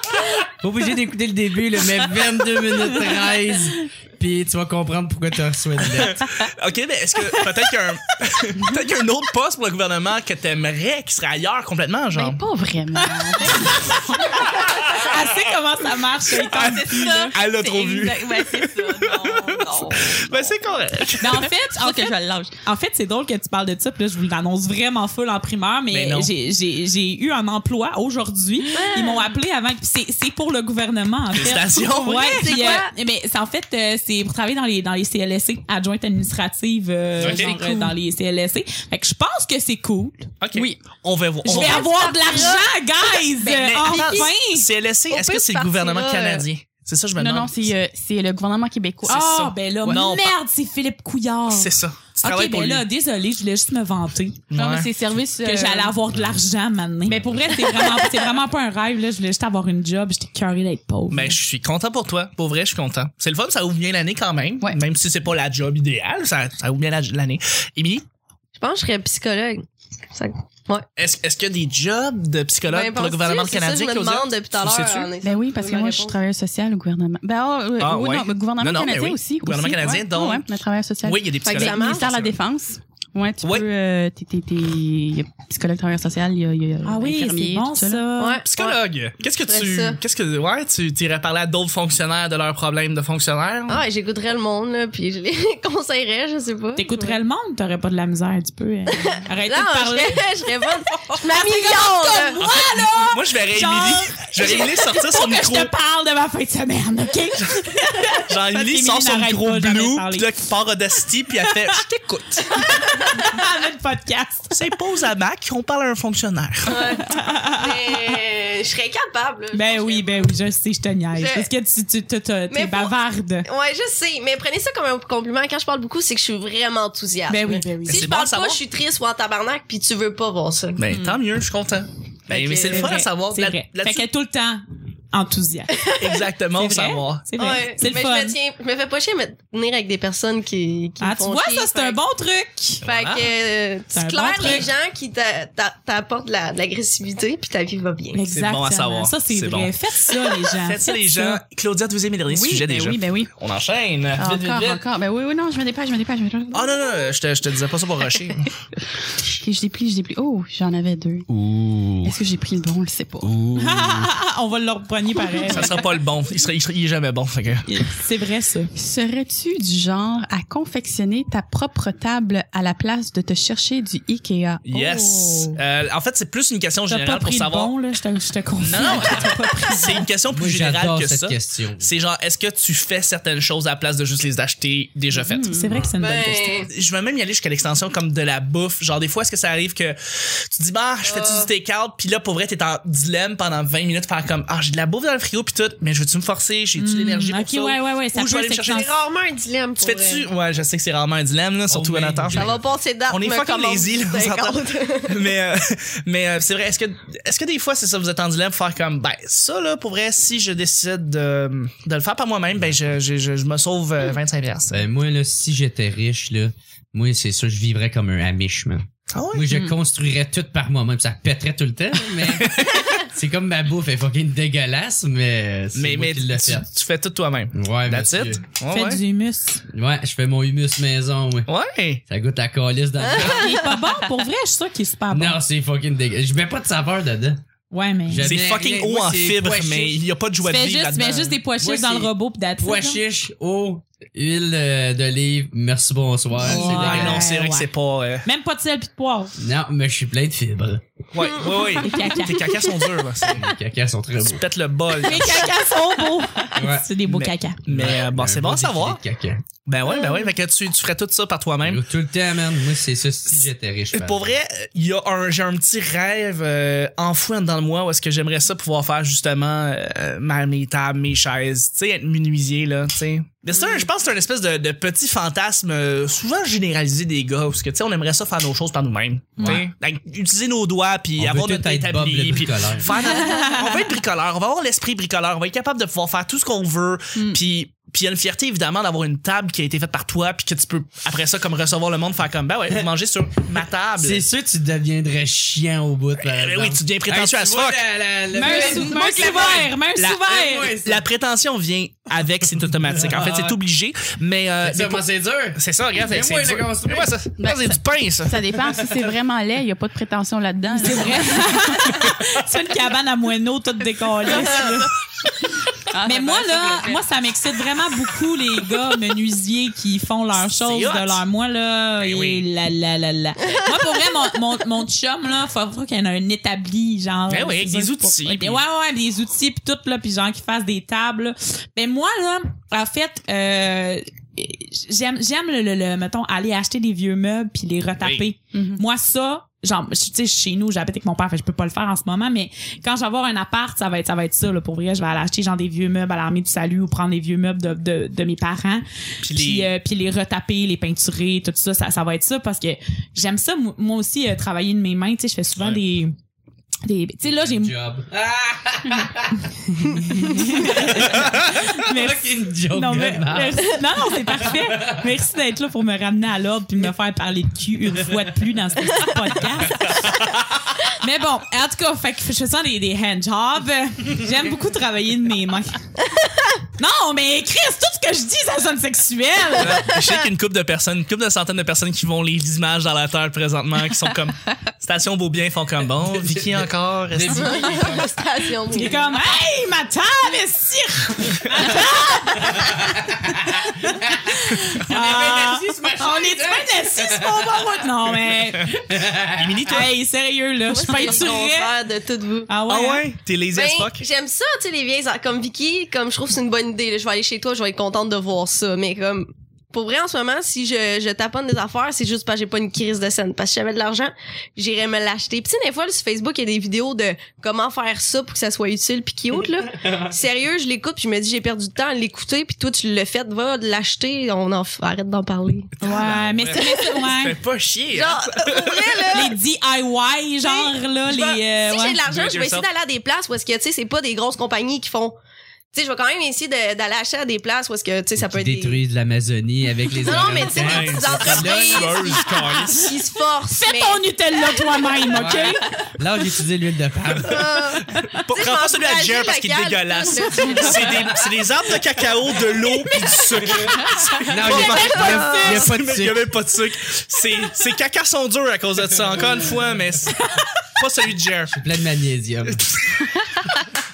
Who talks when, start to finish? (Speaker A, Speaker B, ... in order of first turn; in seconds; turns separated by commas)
Speaker A: 0.6-6.5, Speaker B: 6.0-12.4, Speaker C: 12.1-15.0, Speaker D: 13.4-17.4, Speaker B: 14.5-15.1, Speaker B: 16.5-21.4, Speaker C: 16.5-22.6, Speaker D: 21.2-40.3, Speaker B: 25.9-26.3, Speaker E: 28.7-29.3, Speaker B: 31.3-32.5, Speaker E: 32.2-32.9, Speaker B: 37.2-37.9, Speaker C: 37.3-37.7, Speaker B: 40.4-41.9, Speaker C: 40.5-40.8, Speaker D: 41.5-44.7, Speaker E: 41.5-42.7, Speaker C: 41.9-42.5, Speaker B: 43.5-47.7, Speaker E: 43.8-44.3, Speaker E: 45.1-46.5, Speaker C: 47.2-49.5, Speaker D: 49.1-54.4, Speaker B: 49.1-50.3, Speaker B: 51.5-52.9, Speaker B: 54.5-54.9, Speaker C: 54.5-56.0, Speaker D: 55.4-61.4, Speaker A: 57.1-57.5, Speaker B: 61.1-68.0, Speaker E: 68.6-70.9, Speaker B: 71.0-75.1, Speaker E: 72.7-76.2, Speaker C: 75.2-88.1, Speaker B: 77.8-80.4, Speaker B: 81.0-82.3, Speaker E: 81.4-82.1, Speaker D: 86.8-88.4, Speaker E: 88.2-88.8, Speaker B: 88.5-93.8, Speaker E: 89.5-90.0, Speaker E: 93.7-97.2, Speaker D: 96.8-110.3, Speaker E: 98.9-102.4, Speaker B: 102.4-105.7, Speaker B: 108.3-112.6, Speaker D: 112.6-114.5, Speaker B: 114.5-116.8, Speaker E: 116.7-120.3, Speaker D: 117.0-118.2, Speaker D: 119.5-123.5, Speaker E: 121.2-121.5, Speaker E: 122.5-122.9, Speaker E: 123.5-130.8, Speaker D: 127.3-128.1, Speaker B: 127.9-128.6, Speaker B: 130.8-134.1, Speaker E: 132.3-132.9, Speaker D: 132.6-135.9, Speaker B: 136.0-137.3, Speaker D: 136.6-138.4, Speaker E: 137.4-142.0, Speaker D: 141.0-142.8, Speaker B: 142.8-143.3, Speaker E: 142.8-148.2, Speaker D: 143.9-144.7, Speaker D: 148.1-151.4, Speaker B: 148.3-149.7, Speaker B: 150.6-154.8, Speaker C: 152.3-153.3, Speaker C: 154.2-157.1, Speaker B: 156.5-158.5, Speaker C: 159.3-161.3, Speaker B: 161.3-162.2, Speaker C: 162.0-163.3, Speaker B: 163.2-164.1, Speaker D: 163.6-165.8, Speaker B: 165.5-167.7, Speaker D: 167.7-168.7, Speaker C: 168.8-175.5, Speaker B: 174.7-177.7, Speaker D: 176.9-180.1, Speaker B: 178.6-185.5, Speaker A: 180.3-181.9, Speaker C: 185.1-185.8, Speaker D: 185.5-186.6, Speaker E: 186.0-186.7, Speaker B: 186.7-198.9, Speaker E: 191.1-191.5, Speaker D: 196.8-198.9, Speaker E: 198.7-200.3, Speaker B: 199.8-214.8, Speaker A: 201.7-202.7, Speaker E: 202.3-205.3, Speaker A: 214.7-226.7, Speaker B: 219.1-219.5, Speaker B: 222.3-223.0, Speaker B: 225.8-229.0, Speaker A: 227.5-228.4, Speaker D: 228.7-229.6, Speaker A: 229.7-231.5, Speaker B: 231.5-232.0, Speaker A: 232.1-233.6, Speaker E: 233.0-233.8, Speaker D: 233.2-235.4, Speaker A: 235.1-237.4, Speaker D: 237.7-238.3, Speaker A: 238.1-240.0, Speaker B: 238.2-241.4, Speaker D: 240.4-243.0, Speaker A: 241.6-247.3, Speaker D: 246.4-247.7, Speaker B: 246.4-248.2, Speaker D: 248.2-249.3, Speaker A: 249.4-250.8, Speaker B: 251.1-253.5, Speaker E: 251.4-252.0, Speaker D: 251.8-252.7, Speaker A: 253.2-254.4, Speaker B: 254.2-255.5, Speaker D: 255.0-257.6, Speaker A: 256.5-256.9, Speaker B: 257.1-259.0, Speaker A: 257.7-259.4, Speaker B: 259.7-261.8, Speaker E: 259.9-260.2, Speaker A: 261.6-264.4, Speaker B: 263.9-294.3, Speaker D: 279.4-279.7, Speaker A: 279.4-279.6, Speaker A: 281.2-282.9, Speaker D: 282.9-283.8, Speaker A: 294.0-299.7, Speaker B: 296.2-297.8, Speaker D: 298.3-300.7, Speaker B: 298.5-308.4, Speaker A: 300.3-301.1, Speaker A: 302.5-303.6, Speaker A: 304.6-307.2, Speaker C: 307.4-312.1, Speaker D: 310.7-314.9, Speaker C: 314.3-314.9, Speaker C: 315.9-317.1, Speaker D: 316.0-356.1, Speaker B: 320.4-321.2, Speaker B: 322.0-322.4, Speaker B: 327.3-328.6, Speaker B: 338.0-338.3, Speaker C: 338.5-338.8, Speaker B: 349.2-349.7, Speaker D: 356.9-357.7, Speaker A: 357.4-359.4, Speaker D: 359.7-370.3, Speaker A: 359.9-365.1, Speaker D: 370.8-375.8, Speaker D: 376.8-379.8, Speaker B: 379.6-388.0, Speaker A: 386.1-388.1, Speaker E: 387.3-389.2, Speaker D: 388.7-392.8, Speaker A: 392.3-397.7, Speaker D: 393.8-398.8, Speaker A: 398.7-399.8, Speaker B: 399.4-399.9, Speaker D: 399.7-401.8, Speaker E: 400.7-402.5, Speaker D: 402.5-403.1, Speaker B: 402.7-404.0, Speaker E: 403.5-425.8, Speaker A: 419.8-420.1, Speaker B: 425.8-429.2, Speaker D: 425.8-427.4, Speaker E: 426.6-426.9, Speaker E: 427.9-429.4, Speaker D: 429.1-432.0, Speaker E: 430.4-435.1, Speaker B: 432.0-432.7, Speaker E: 435.7-438.8, Speaker A: 438.2-442.1, Speaker E: 439.9-445.5, Speaker B: 440.4-442.9, Speaker D: 442.2-442.8, Speaker D: 443.5-445.6, Speaker A: 445.1-447.6, Speaker E: 447.2-451.3, Speaker B: 447.9-461.6, Speaker E: 452.4-455.6, Speaker A: 453.6-456.3, Speaker D: 454.4-455.7, Speaker A: 461.5-462.7, Speaker B: 462.5-463.1